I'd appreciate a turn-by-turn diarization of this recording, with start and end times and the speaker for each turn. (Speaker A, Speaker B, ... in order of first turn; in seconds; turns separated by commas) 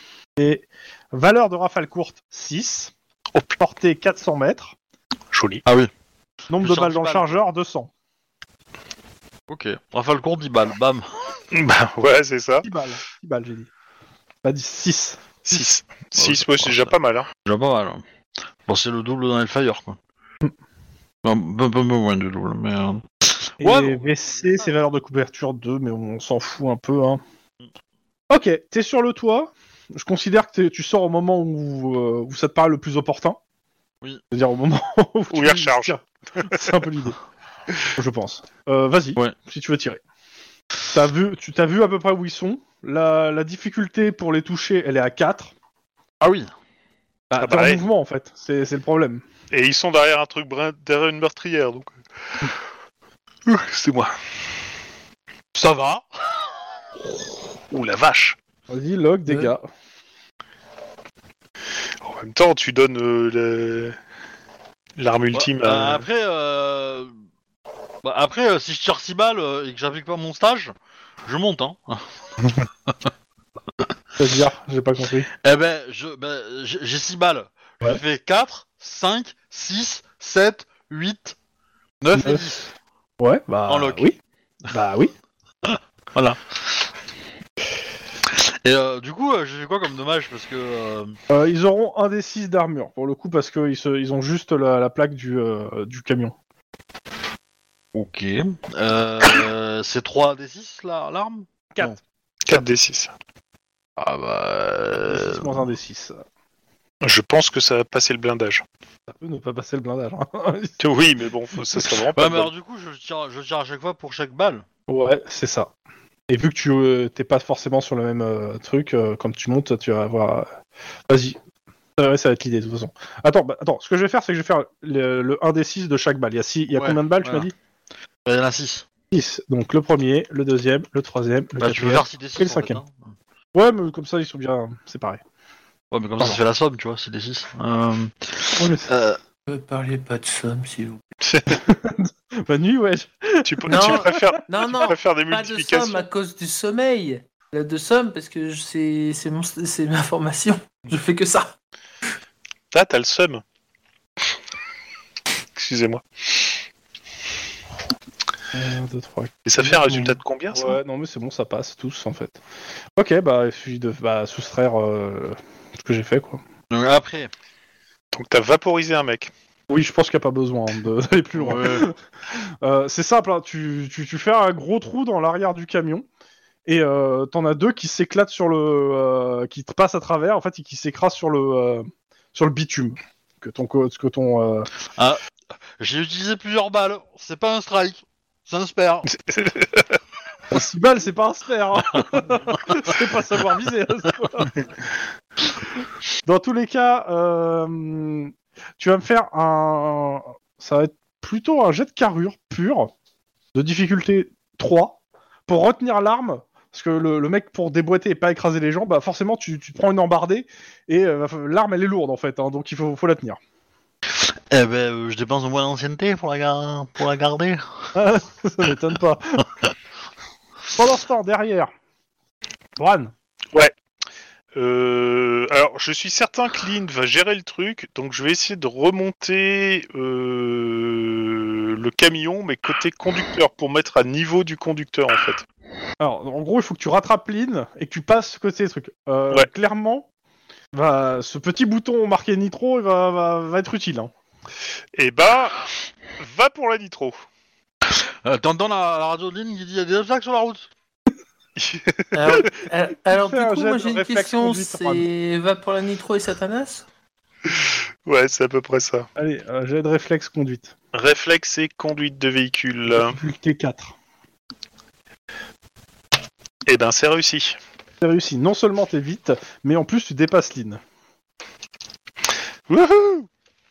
Speaker A: 0.4-4.8, Speaker B: 5.3-5.6, Speaker C: 5.7-5.9, Speaker A: 6.5-7.9, Speaker C: 6.6-7.4, Speaker C: 9.5-11.1, Speaker B: 11.5-12.7, Speaker A: 12.6-13.7, Speaker A: 14.4-15.2, Speaker B: 15.4-17.3, Speaker C: 16.2-18.0, Speaker C: 18.6-20.0, Speaker C: 21.2-24.7, Speaker A: 23.6-27.2, Speaker A: 28.3-33.4, Speaker A: 34.3-37.2, Speaker B: 35.3-36.5, Speaker A: 38.0-40.0, Speaker A: 40.9-45.5, Speaker C: 46.2-46.5, Speaker A: 47.3-49.2, Speaker B: 47.4-47.9, Speaker B: 49.5-52.0, Speaker B: 53.5-54.1, Speaker C: 55.5-56.8, Speaker B: 57.7-58.4, Speaker A: 58.7-59.6, Speaker D: 59.3-59.5, Speaker B: 62.0-64.0, Speaker B: 65.0-66.0, Speaker C: 65.3-67.2, Speaker C: 68.0-70.7, Speaker C: 71.3-72.2, Speaker A: 74.2-75.3, Speaker C: 75.3-81.4, Speaker C: 82.0-82.7, Speaker A: 82.2-82.7, Speaker A: 83.2-84.2, Speaker C: 83.7-84.1, Speaker A: 84.7-85.1, Speaker C: 85.6-86.9, Speaker C: 88.2-91.2, Speaker A: 91.3-96.3, Speaker C: 97.9-102.0, Speaker B: 102.5-103.2, Speaker C: 104.0-105.7, Speaker A: 105.0-106.2, Speaker B: 107.0-108.6, Speaker A: 109.1-110.8, Speaker B: 110.8-112.5, Speaker C: 112.1-114.7, Speaker A: 114.9-115.7, Speaker A: 116.3-120.5, Speaker A: 121.1-121.4, Speaker A: 122.0-127.5, Speaker C: 126.7-127.5, Speaker C: 128.2-128.9, Speaker A: 129.1-132.8, Speaker C: 131.6-133.1, Speaker A: 133.5-135.2, Speaker C: 135.9-139.2, Speaker A: 138.6-138.9, Speaker D: 139.5-141.0, Speaker B: 141.2-141.6, Speaker A: 141.5-144.3, Speaker B: 143.4-146.1, Speaker D: 143.7-151.6, Speaker B: 152.7-153.4, Speaker B: 155.6-156.5, Speaker A: 158.5-162.4, Speaker B: 159.5-160.8, Speaker A: 163.0-166.4, Speaker C: 166.7-167.3, Speaker B: 168.1-169.3, Speaker A: 169.7-176.1, Speaker C: 171.3-171.9, Speaker A: 176.7-184.7, Speaker C: 184.9-185.2, Speaker C: 185.8-189.1, Speaker B: 189.1-190.0, Speaker A: 190.5-194.6, Speaker A: 196.2-202.9, Speaker A: 203.5-213.4, Speaker C: 214.1-217.9, Speaker A: 217.9-219.5, Speaker A: 220.8-221.7, Speaker A: 222.8-223.1, Speaker B: 224.5-235.4, Speaker A: 236.0-240.1, Speaker A: 240.7-244.1, Speaker B: 244.9-247.2, Speaker C: 247.8-250.7, Speaker B: 251.6-252.4, Speaker D: 252.1-256.9, Speaker A: 253.1-255.1, Speaker B: 257.5-259.1, Speaker A: 259.2-260.8, Speaker B: 260.9-263.2, Speaker A: 262.9-263.9, Speaker B: 266.7-267.6, Speaker A: 268.0-270.8, Speaker B: 272.7-273.3